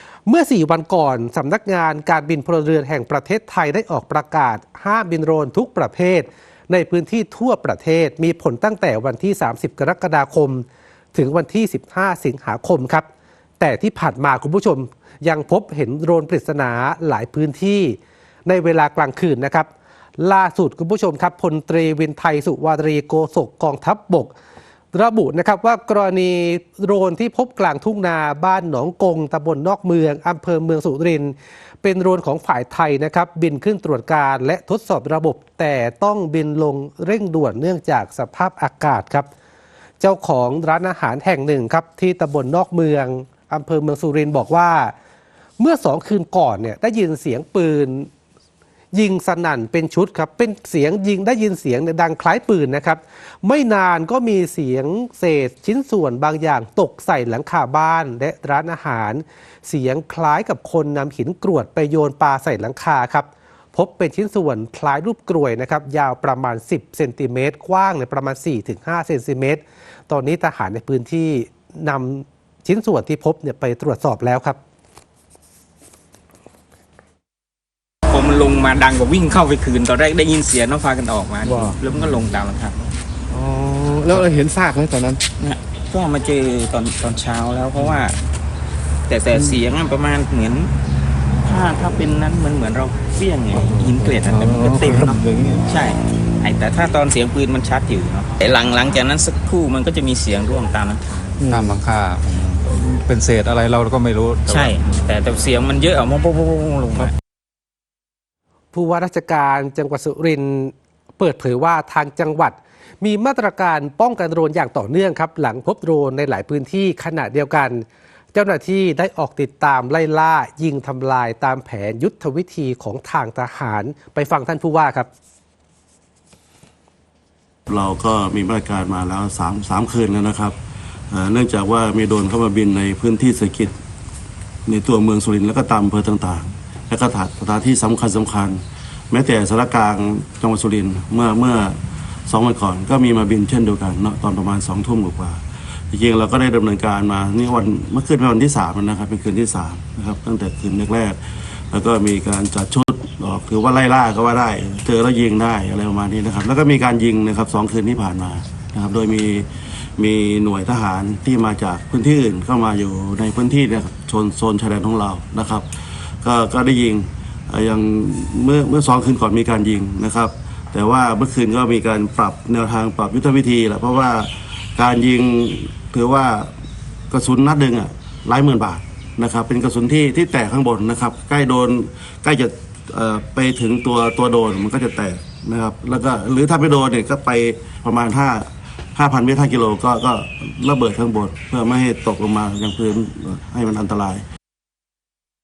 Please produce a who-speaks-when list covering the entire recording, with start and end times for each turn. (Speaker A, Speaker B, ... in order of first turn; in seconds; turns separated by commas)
Speaker A: 0.3-13.1, Speaker A: 13.6-24.3, Speaker A: 24.9-39.3, Speaker A: 40.0-44.9, Speaker A: 45.6-48.1, Speaker A: 48.9-74.6, Speaker B: 78.1-82.8, Speaker C: 81.5-81.8, Speaker C: 83.3-85.2, Speaker B: 85.4-88.2, Speaker B: 89.1-90.7, Speaker B: 91.5-101.4, Speaker C: 93.7-95.6, Speaker C: 101.4-101.8, Speaker D: 101.5-104.8, Speaker B: 104.5-107.1, Speaker A: 108.7-125.1, Speaker E: 127.7-130.6, Speaker E: 131.1-133.7, Speaker E: 134.7-151.2, Speaker E: 151.7-165.7, Speaker E: 166.2-176.5, Speaker E: 177.1-194.2